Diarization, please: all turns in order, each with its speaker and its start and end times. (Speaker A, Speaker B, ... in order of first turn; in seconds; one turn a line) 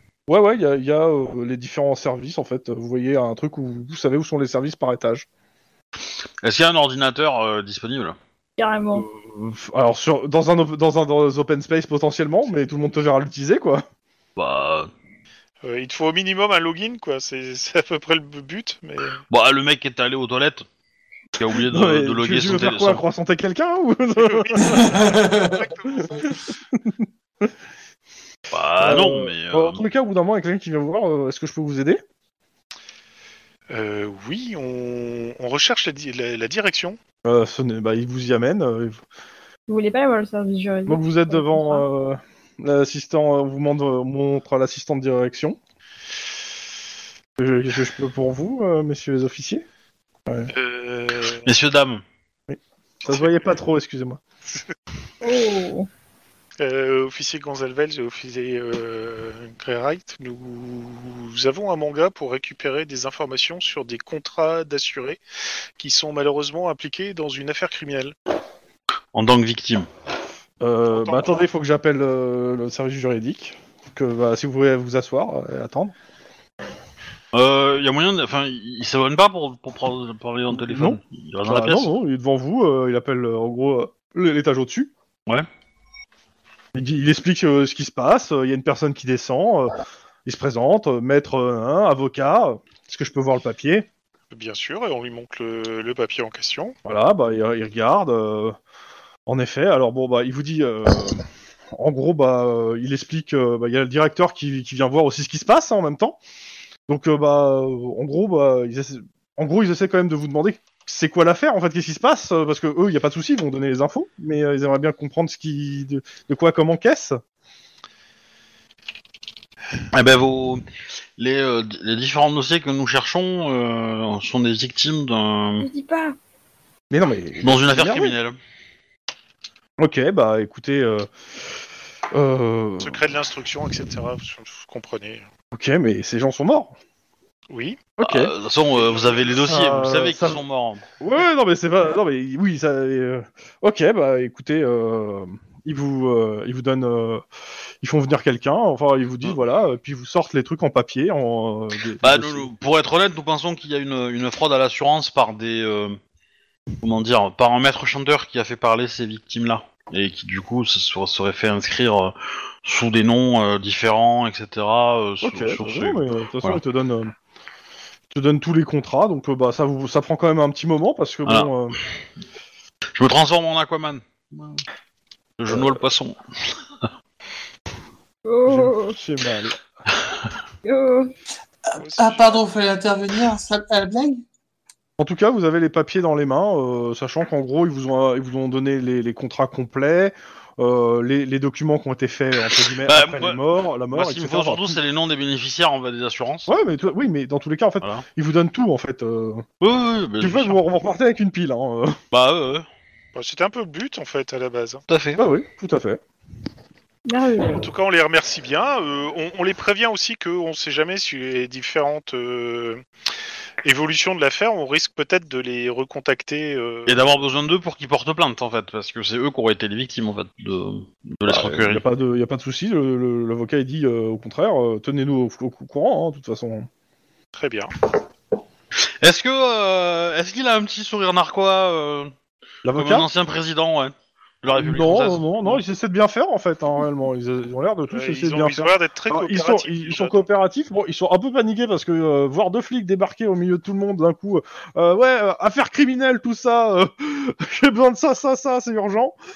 Speaker A: 0.3-5.3
Speaker B: 6.4-8.2
Speaker C: 8.6-9.1
Speaker A: 8.9-13.8
Speaker B: 14.4-14.9
Speaker D: 15.6-19.2
Speaker B: 19.3-20.6
Speaker B: 21.4-23.0
Speaker A: 21.6-25.2
Speaker D: 24.2-26.3
Speaker E: 24.7-25.6
Speaker A: 25.9-27.5
Speaker B: 28.5-29.8
Speaker A: 28.8-32.0
Speaker D: 33.7-37.0
Speaker A: 37.2-39.0
Speaker C: 39.7-41.8
Speaker A: 40.9-45.6
Speaker A: 47.4-49.7
Speaker D: 50.5-51.5
Speaker B: 51.4-52.0
Speaker A: 52.5-54.2
Speaker D: 53.0-53.5
Speaker C: 55.2-55.9
Speaker D: 56.6-65.2
Speaker D: 65.8-68.1
Speaker B: 69.1-69.9
Speaker A: 70.6-75.9
Speaker D: 70.9-71.4
Speaker B: 77.3-81.9
Speaker A: 80.5-84.9
Speaker A: 86.8-89.7
Speaker A: 90.2-93.9
Speaker D: 94.3-96.8
Speaker A: 96.8-98.6
Speaker A: 99.3-101.2
Speaker A: 101.7-106.2
Speaker A: 106.9-117.2
Speaker B: 119.9-120.6
Speaker B: 121.2-125.7
Speaker C: 125.6-126.2
Speaker A: 126.9-128.2
Speaker B: 127.4-128.4
Speaker A: 129.8-131.1
Speaker A: 132.1-133.0
Speaker D: 132.8-135.2
Speaker A: 135.5-136.7
Speaker D: 137.5-137.9
Speaker A: 138.0-138.3
Speaker B: 138.0-140.8
Speaker D: 138.7-139.2
Speaker A: 139.4-140.4
Speaker A: 141.0-147.2
Speaker A: 147.8-152.5
Speaker B: 152.0-156.0
Speaker B: 156.8-166.6
Speaker A: 165.2-167.1
Speaker A: 168.1-171.8
Speaker B: 171.3-171.5
Speaker B: 173.0-174.6
Speaker B: 175.4-176.2
Speaker A: 175.5-175.8
Speaker C: 178.3-179.0
Speaker A: 178.5-179.6
Speaker C: 180.7-181.1
Speaker E: 181.7-184.2
Speaker D: 181.8-182.5
Speaker A: 185.0-194.8
Speaker B: 192.6-193.4
Speaker B: 193.9-196.5
Speaker A: 196.5-199.4
Speaker B: 199.6-200.6
Speaker A: 200.2-202.0
Speaker B: 202.1-202.7
Speaker D: 203.1-204.8
Speaker B: 204.9-205.2
Speaker A: 205.2-206.0
Speaker C: 207.1-207.7
Speaker D: 207.5-212.8
Speaker D: 213.6-217.0
Speaker B: 216.9-221.8
Speaker A: 221.3-226.7
Speaker D: 227.3-227.7
Speaker B: 229.0-232.1
Speaker A: 232.7-233.1
Speaker B: 232.7-235.6
Speaker A: 234.6-249.2
Speaker D: 237.9-240.2